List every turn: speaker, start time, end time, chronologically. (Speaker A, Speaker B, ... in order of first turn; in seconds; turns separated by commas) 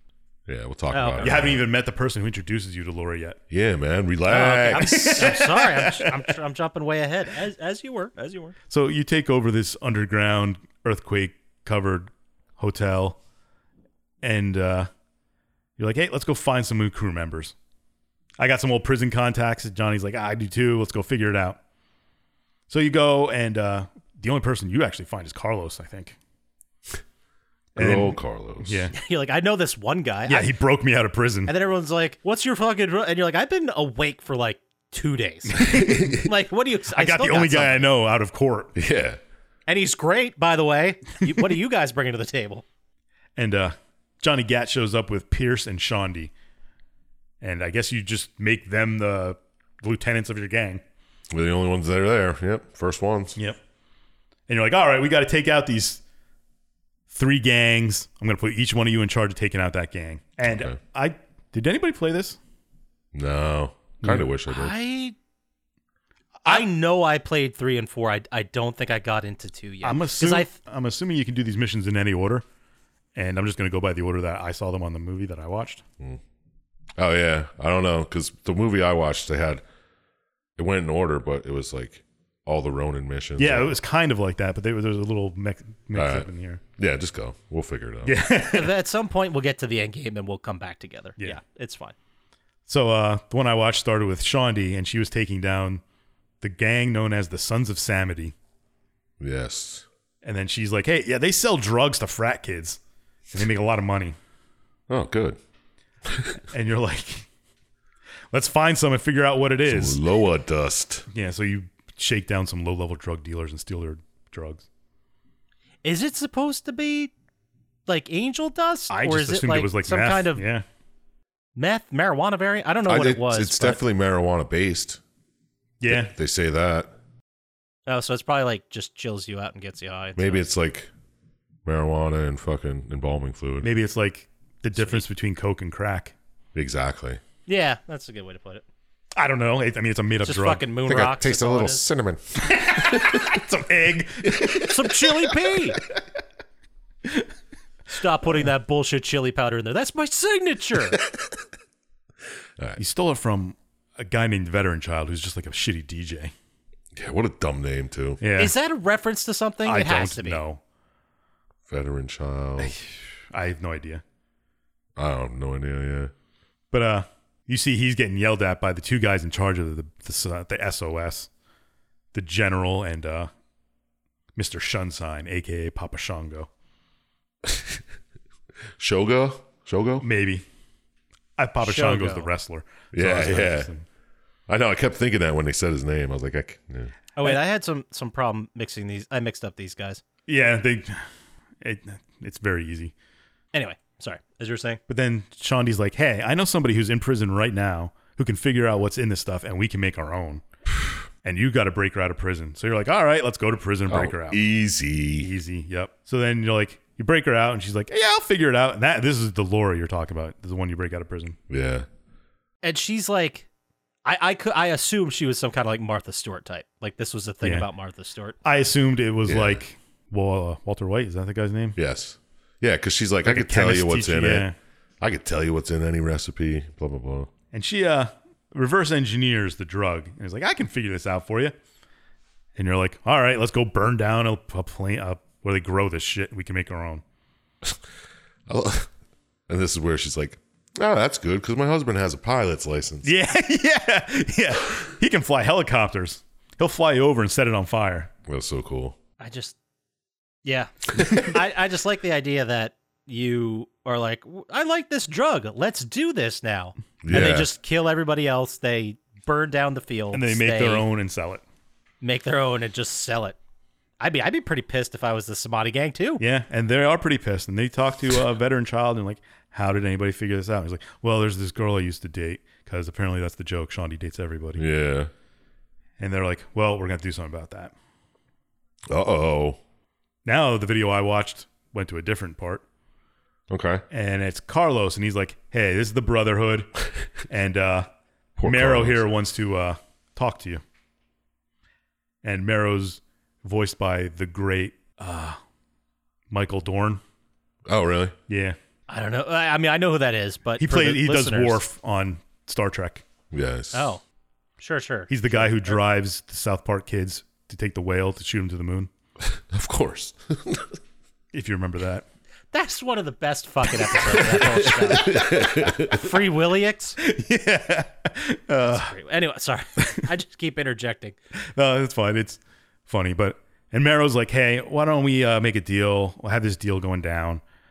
Speaker A: 0.5-1.6, Speaker B: 0.9-1.4, Speaker C: 1.2-3.4, Speaker A: 3.5-5.3, Speaker B: 4.3-8.6, Speaker C: 4.4-6.3, Speaker C: 8.7-13.2, Speaker C: 14.2-14.9, Speaker C: 15.8-17.5, Speaker C: 18.4-21.6, Speaker C: 22.7-26.2, Speaker C: 27.8-28.9, Speaker A: 27.8-28.9, Speaker B: 28.9-30.5, Speaker C: 30.3-31.5, Speaker B: 31.5-37.9, Speaker C: 35.5-36.2, Speaker A: 35.6-36.3, Speaker C: 36.9-38.7, Speaker A: 38.8-39.2, Speaker B: 39.7-42.6, Speaker C: 43.4-46.3, Speaker C: 47.4-50.8, Speaker A: 51.3-53.4, Speaker C: 54.5-56.0, Speaker C: 57.1-62.4, Speaker A: 60.5-60.8, Speaker A: 63.1-64.8, Speaker C: 64.0-64.3, Speaker B: 64.5-65.2, Speaker B: 66.5-70.5, Speaker C: 69.8-72.4, Speaker C: 73.2-75.8, Speaker A: 77.0-79.6, Speaker A: 80.6-83.8, Speaker C: 83.4-86.6, Speaker A: 85.9-88.2, Speaker C: 88.0-88.7, Speaker B: 88.5-92.0, Speaker C: 92.7-95.8, Speaker C: 96.4-98.3, Speaker A: 99.2-99.9, Speaker C: 100.2-102.8, Speaker C: 103.3-104.2, Speaker A: 104.9-105.4, Speaker A: 106.1-106.4, Speaker C: 106.5-107.3, Speaker C: 108.3-110.0, Speaker A: 109.7-111.1, Speaker C: 111.1-114.7, Speaker B: 115.8-117.1, Speaker B: 117.9-120.5, Speaker C: 118.9-120.6, Speaker B: 121.6-123.8, Speaker A: 122.9-125.0, Speaker C: 125.8-126.1, Speaker A: 125.9-126.9, Speaker B: 127.9-130.5, Speaker A: 130.2-130.9, Speaker A: 131.7-133.7, Speaker C: 133.6-136.1, Speaker A: 136.6-137.2, Speaker B: 137.5-138.7, Speaker C: 139.2-140.7, Speaker B: 140.2-141.8, Speaker A: 140.9-143.4, Speaker C: 142.4-145.0, Speaker A: 144.2-144.7, Speaker B: 144.7-145.8, Speaker B: 147.9-151.0, Speaker C: 152.8-156.3, Speaker A: 156.9-158.2, Speaker C: 158.2-158.6, Speaker B: 158.4-160.4, Speaker C: 159.7-160.6, Speaker A: 161.7-162.7, Speaker C: 162.6-164.0, Speaker A: 165.0-166.1, Speaker C: 166.7-171.3, Speaker C: 172.1-173.3, Speaker C: 174.4-176.5, Speaker A: 177.4-177.8, Speaker A: 178.8-180.1, Speaker C: 180.0-180.4, Speaker C: 181.4-183.8, Speaker B: 181.6-182.3, Speaker A: 182.9-183.7, Speaker A: 184.5-186.9, Speaker B: 187.2-190.0, Speaker C: 190.3-191.0, Speaker C: 191.6-192.9, Speaker B: 193.5-194.8, Speaker C: 194.9-200.4, Speaker C: 201.2-204.4, Speaker A: 203.9-205.3, Speaker C: 205.2-211.4, Speaker A: 211.5-211.9, Speaker B: 212.6-213.5, Speaker B: 214.1-218.4, Speaker C: 218.4-221.8, Speaker A: 219.3-219.6, Speaker A: 221.8-224.5, Speaker C: 223.2-224.6, Speaker A: 225.0-227.3, Speaker C: 227.5-231.6, Speaker C: 232.6-237.0, Speaker A: 238.5-238.9, Speaker A: 239.5-243.1, Speaker C: 243.0-248.1, Speaker A: 248.3-249.0, Speaker B: 249.2-249.6, Speaker B: 250.4-260.9, Speaker A: 257.0-257.5, Speaker C: 260.1-261.4, Speaker B: 262.0-263.4, Speaker B: 264.0-266.2, Speaker C: 266.2-274.6, Speaker A: 274.6-275.1, Speaker C: 276.0-277.7, Speaker A: 278.9-279.6, Speaker C: 280.2-282.6, Speaker A: 283.5-283.8, Speaker C: 283.9-286.7, Speaker C: 287.3-287.9, Speaker A: 288.4-289.0, Speaker C: 288.4-290.6, Speaker C: 292.2-295.4, Speaker C: 296.3-297.0, Speaker A: 297.7-298.2, Speaker C: 298.3-298.6, Speaker B: 298.9-301.6, Speaker C: 300.6-303.0, Speaker A: 303.3-303.9, Speaker B: 303.7-304.0, Speaker B: 304.6-305.8, Speaker C: 305.1-308.9, Speaker A: 309.2-310.8, Speaker C: 311.3-312.1, Speaker B: 312.5-317.0, Speaker A: 314.2-316.1, Speaker C: 317.0-318.9, Speaker B: 318.7-321.2, Speaker C: 321.6-327.4